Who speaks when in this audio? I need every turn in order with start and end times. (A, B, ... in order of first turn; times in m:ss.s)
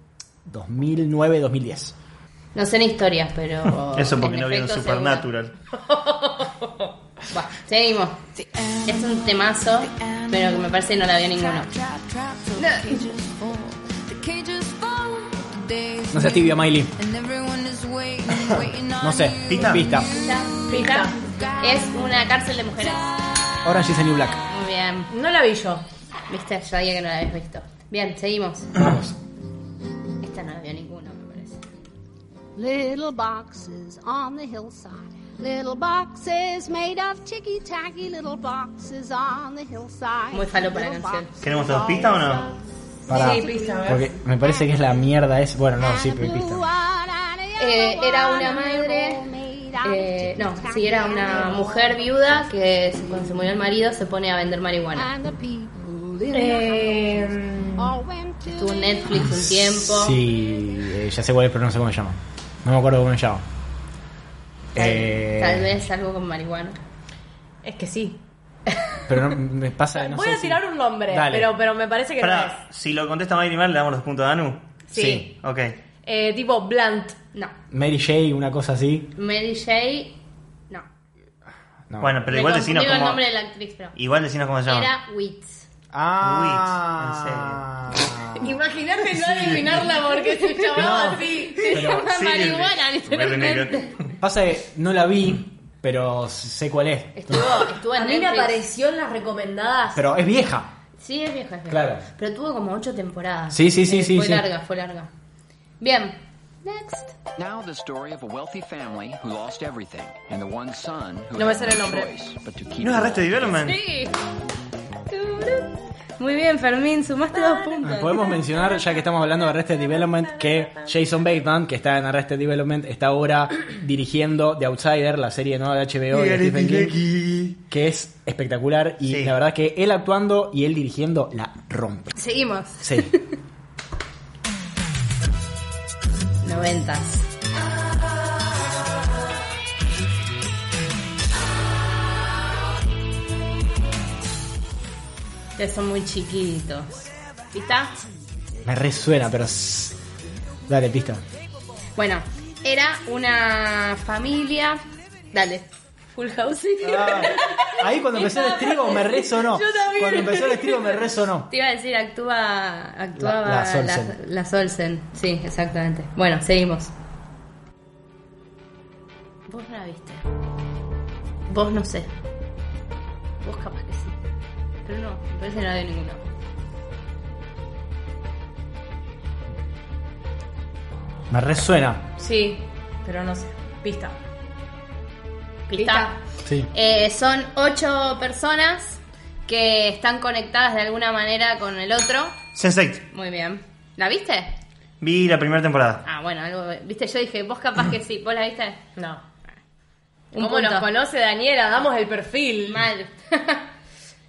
0:00.5-0:02.0 A
0:02.6-0:05.2 B
0:04.0-0:05.5 C
0:07.3-0:08.2 B
0:08.4-0:22.0 D
0:08.8-0:11.7 B
0:12.6-0:13.0 B
0:16.1-0:16.9 A
0:19.0-0:20.1 A
0:19.5-0:19.9 C
0:20.1-0:23.1 B
0:20.7-0:21.1 E
0:23.6-0:24.4 A
0:24.5-0:25.1 B
0:25.1-0:25.8 E
0:26.3-0:28.7 B
0:28.8-0:29.1 A
0:30.2-0:31.6 B
0:32.6-0:42.6 D
0:40.3-0:41.3 B
0:41.4-0:42.5 C
0:43.1-0:46.6 A
0:43.1-0:44.1 E
0:43.1-0:45.0 D
0:43.2-0:43.8 B
0:45.8-0:52.5 D
0:47.6-0:49.2 B
0:49.8-0:55.1 B
0:55.0-0:59.4 D
0:56.3-0:58.0 E
0:58.5-1:00.2 B
0:59.5-1:03.4 A
1:00.3-1:00.7 D
1:04.8-1:05.7 A
1:04.8-1:06.8 B
1:07.6-1:08.2 E
1:09.1-1:11.5 A
1:10.0-1:12.6 E
1:12.2-1:14.7 C
1:14.9-1:15.3 E
1:15.0-1:15.3 A
1:15.3-1:15.8 C
1:16.0-1:17.2 E
1:17.7-1:19.1 A
1:19.2-1:20.2 B
1:21.9-1:22.2 A
1:22.0-1:23.2 C
1:22.3-1:24.0 B
1:23.9-1:24.9 C
1:24.7-1:25.6 B
1:25.9-1:28.6 A
1:26.2-1:27.6 C
1:28.4-1:31.7 E
1:29.1-1:29.8 A
1:30.2-1:34.0 B
1:30.7-1:32.1 A
1:31.8-1:34.1 C
1:34.2-1:37.4 A
1:37.2-1:38.6 B
1:37.9-1:40.0 E
1:39.9-1:40.7 A
1:41.0-1:45.1 B
1:41.7-1:42.0 A
1:43.5-1:44.4 A
1:45.8-1:47.2 B
1:47.4-1:53.6 F
1:51.3-1:52.1 E
1:52.8-1:53.8 C
1:53.6-1:54.1 B
1:55.1-1:58.2 B
1:57.8-2:07.0 A
2:06.1-2:07.6 C
2:07.6-2:12.2 A
2:09.0-2:09.3 C
2:12.2-2:13.3 B
2:12.8-2:13.1 A
2:16.4-2:17.2 B
2:25.6-2:27.9 B
2:28.6-2:30.0 A
2:30.7-2:31.2 A
2:32.0-2:34.8 B
2:35.3-2:35.6 B
2:36.2-2:37.7 B
2:36.8-2:41.5 A
2:38.1-2:41.0 E
2:41.5-2:46.9 B
2:43.2-2:44.2 A
2:49.5-2:50.2 B
2:51.5-2:52.1 B
2:53.4-2:54.2 B
2:54.8-2:56.2 B
3:01.3-3:02.0 A
3:02.2-3:04.2 E
3:05.7-3:06.2 B
3:05.8-3:06.1 E
3:06.7-3:12.4 B
3:12.6-3:13.0 C
3:13.1-3:14.5 B
3:15.0-3:16.0 C
3:16.0-3:18.8 B
3:19.0-3:19.2 E
3:20.3-3:20.9 B
3:20.4-3:22.8 E
3:22.7-3:23.7 B